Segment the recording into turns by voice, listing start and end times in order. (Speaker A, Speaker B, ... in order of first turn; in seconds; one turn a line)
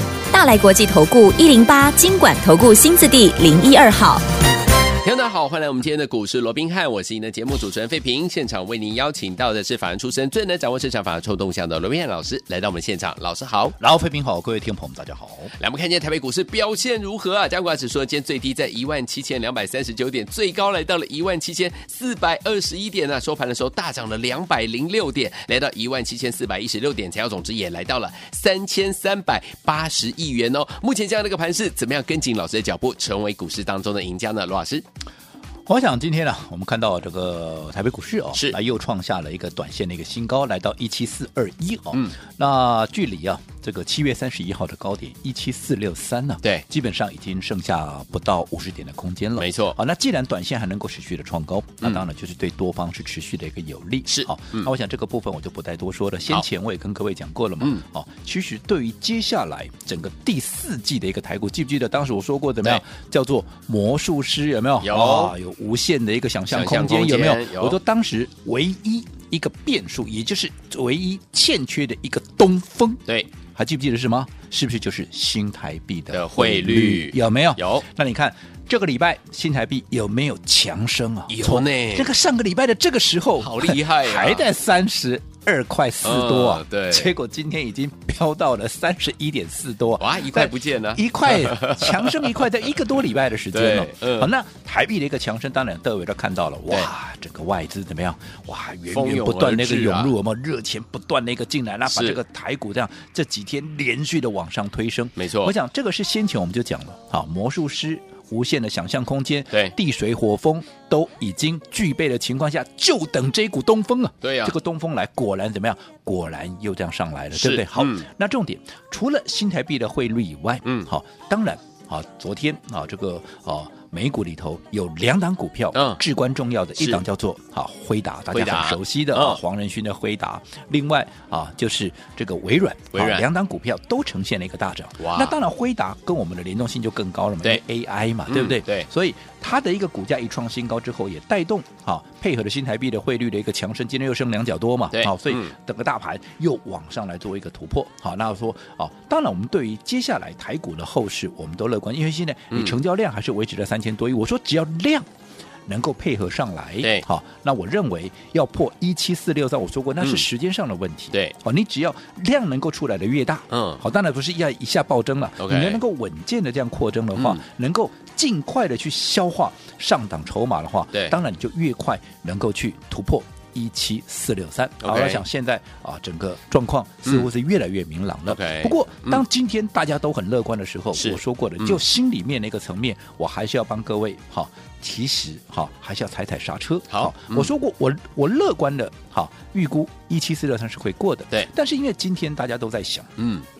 Speaker A: 0.3-4.2
Speaker B: 5.0-13.8
Speaker C: 13.8-15.5
Speaker B: 15.6-34.8
Speaker C: 35.7-155.1
Speaker B: 49.4-49.8
Speaker B: 54.1-54.7
Speaker B: 64.8-65.3
Speaker B: 66.5-67.8
Speaker B: 76.1-77.9
Speaker B: 81.3-82.1
Speaker B: 83.4-84.5
Speaker B: 86.0-87.1
Speaker B: 90.0-92.5
Speaker B: 93.5-94.3
Speaker B: 98.9-100.1
Speaker B: 101.9-102.2
Speaker B: 105.2-105.5
Speaker B: 114.2-114.6
Speaker B: 117.3-118.1
Speaker B: 120.7-120.9
Speaker B: 125.7-126.0
Speaker B: 126.8-127.0
Speaker B: 128.3-129.4
Speaker B: 132.9-133.3
Speaker B: 135.0-135.4
Speaker B: 138.3-138.9
Speaker B: 144.9-145.5
Speaker C: 155.7-193.2
Speaker B: 163.5-163.8
Speaker B: 165.4-165.8
Speaker B: 167.2-167.4
Speaker B: 174.8-175.2
Speaker B: 178.3-179.2
Speaker B: 180.9-181.8
Speaker B: 186.9-187.5
Speaker B: 193.2-193.5